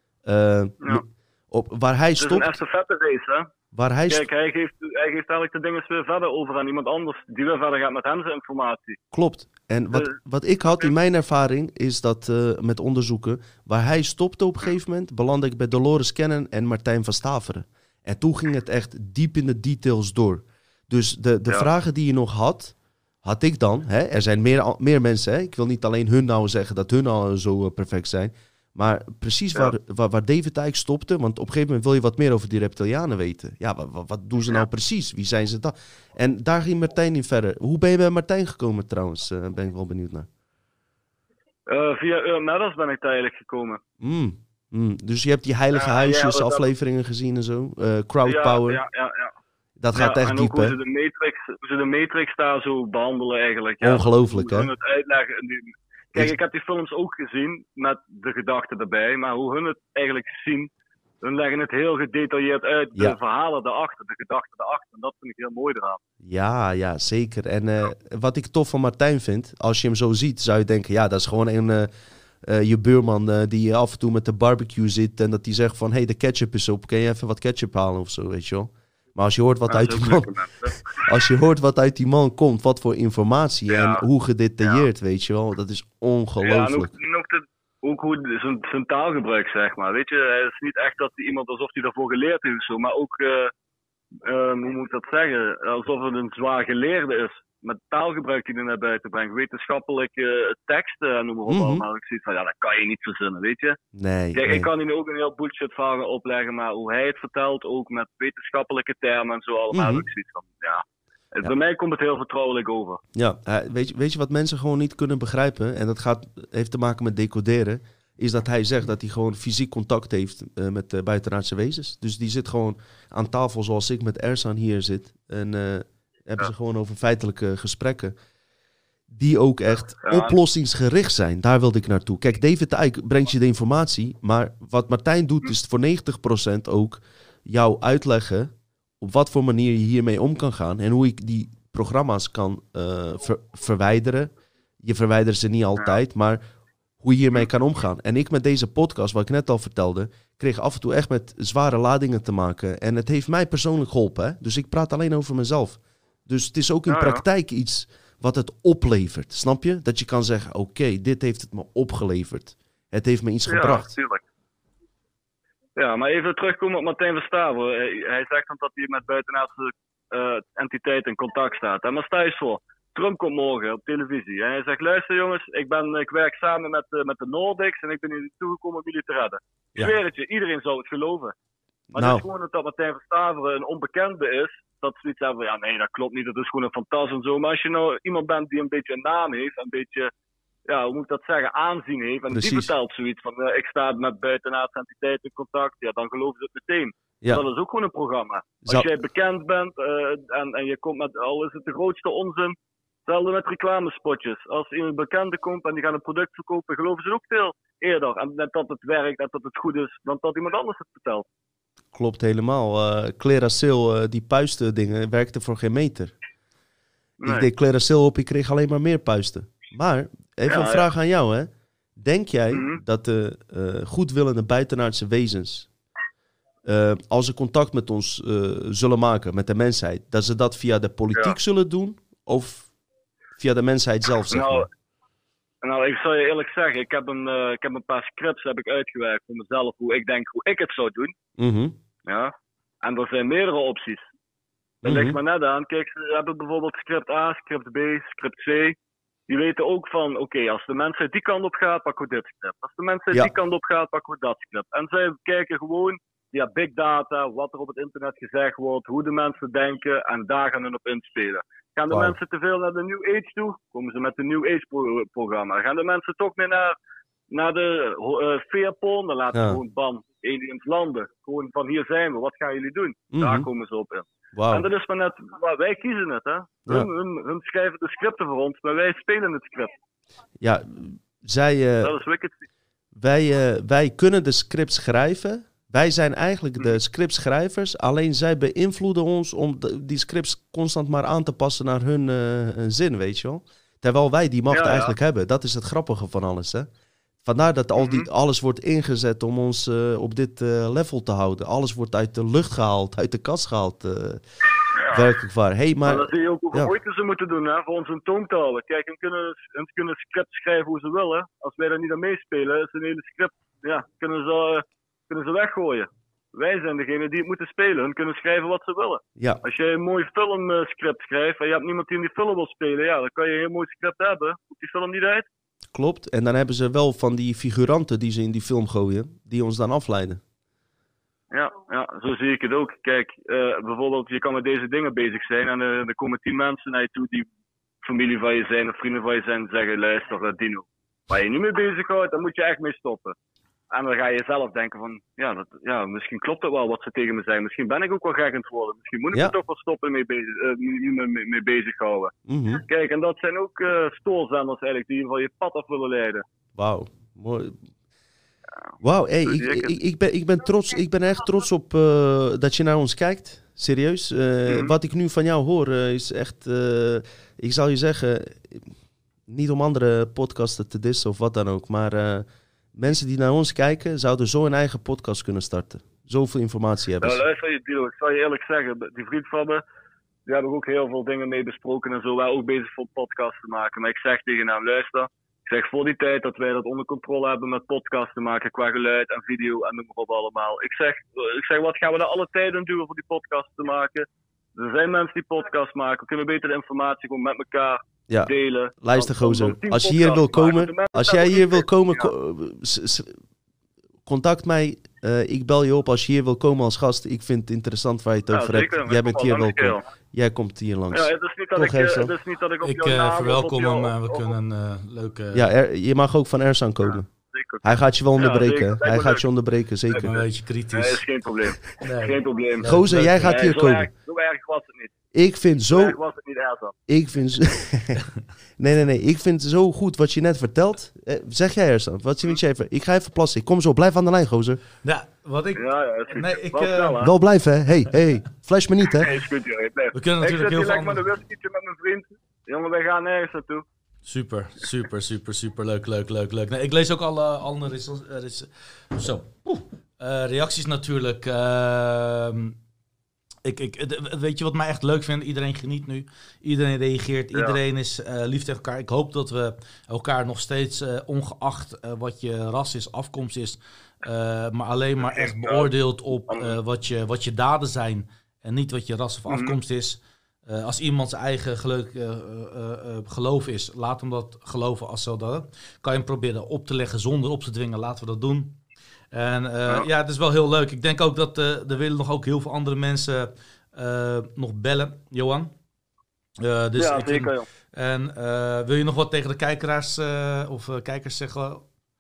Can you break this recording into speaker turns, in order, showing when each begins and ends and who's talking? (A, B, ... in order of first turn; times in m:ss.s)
0:00.3-0:02.6 A
0:02.2-0:03.5 B
0:03.7-0:04.3 A
0:04.1-0:09.0 B
0:09.1-0:40.3 A
0:41.7-0:43.8 B
0:44.0-0:48.8 A
0:45.7-0:46.7 B
0:48.2-0:49.4 B
0:49.8-0:50.8 A
0:49.9-1:00.7 B
0:53.8-0:54.7 A
1:01.2-1:06.0 B
1:06.2-1:11.9 A
1:12.4-1:20.3 A
1:19.7-1:21.1 B
1:20.9-1:26.9 A
1:23.7-1:24.0 B
1:26.4-1:33.5 B
1:34.2-1:43.8 B
1:41.5-1:41.8 A
1:44.0-1:44.7 A
1:44.4-1:53.0 B
1:49.7-1:50.0 A
1:53.1-2:08.1 A
2:09.1-2:24.3 A
2:10.0-2:10.4 B
2:24.8-2:26.4 A
2:27.0-2:43.9 A
2:36.9-2:37.2 B
2:43.5-2:44.2 B
2:45.8-3:01.4 B
3:01.9-3:10.1 B
3:01.9-3:02.2 A
3:10.7-3:31.3 B
3:12.3-3:12.7 A
3:18.6-3:18.9 A
3:31.9-3:36.1 A
3:37.2-3:37.5 B
3:37.3-3:45.7 A
3:40.5-3:40.9 B
3:42.5-3:42.8 B
3:46.7-3:52.7 A
3:53.4-3:54.7 A
3:54.3-3:54.7 B
3:55.6-4:01.2 B
4:01.4-4:01.8 A
4:02.1-4:04.1 B
4:04.8-4:05.2 A
4:04.8-4:08.8 B
4:09.3-4:26.8 B
4:21.9-4:22.2 A
4:27.3-4:39.7 B
4:29.3-4:29.6 A
4:33.1-4:33.4 A
4:34.4-4:34.6 A
4:40.4-4:41.9 A
4:41.8-4:42.5 B
4:43.0-4:56.7 A
4:54.5-4:54.9 B
4:57.2-5:04.2 A
4:57.8-4:58.1 B
5:04.7-5:05.0 B
5:04.9-5:06.7 A
5:05.8-5:25.3 B
5:25.7-5:30.2 A
5:31.3-5:37.3 B
5:37.8-5:43.1 B
5:43.7-5:56.2 B
5:52.3-5:52.6 A
5:56.6-5:57.6 A
5:58.8-6:08.7 A
5:59.3-5:59.7 B
6:04.5-6:04.7 B
6:09.3-6:17.2 A
6:17.0-6:19.6 B
6:20.3-6:42.1 B
6:38.1-6:43.2 A
6:44.1-6:52.1 A
6:48.3-6:49.8 B
6:50.9-6:54.4 B
6:52.6-6:55.5 C
6:55.3-6:57.1 A
6:56.8-6:59.2 B
6:57.6-7:00.1 A
6:59.9-7:01.0 C
7:00.7-7:04.9 B
7:01.8-7:03.4 C
7:02.6-7:03.9 A
7:05.1-7:06.0 A
7:05.7-7:06.7 B
7:06.9-7:08.0 A
7:08.6-7:14.6 A
7:14.8-7:17.0 C
7:15.6-7:17.1 B
7:17.0-7:19.1 A
7:18.9-7:23.6 B
7:19.9-7:21.0 C
7:24.0-7:32.6 C
7:33.4-7:58.6 C
7:45.0-7:45.7 B
7:46.3-7:46.6 B
7:49.3-7:49.6 B
7:59.1-8:05.5 C
8:06.4-8:11.6 C
8:06.7-8:07.5 B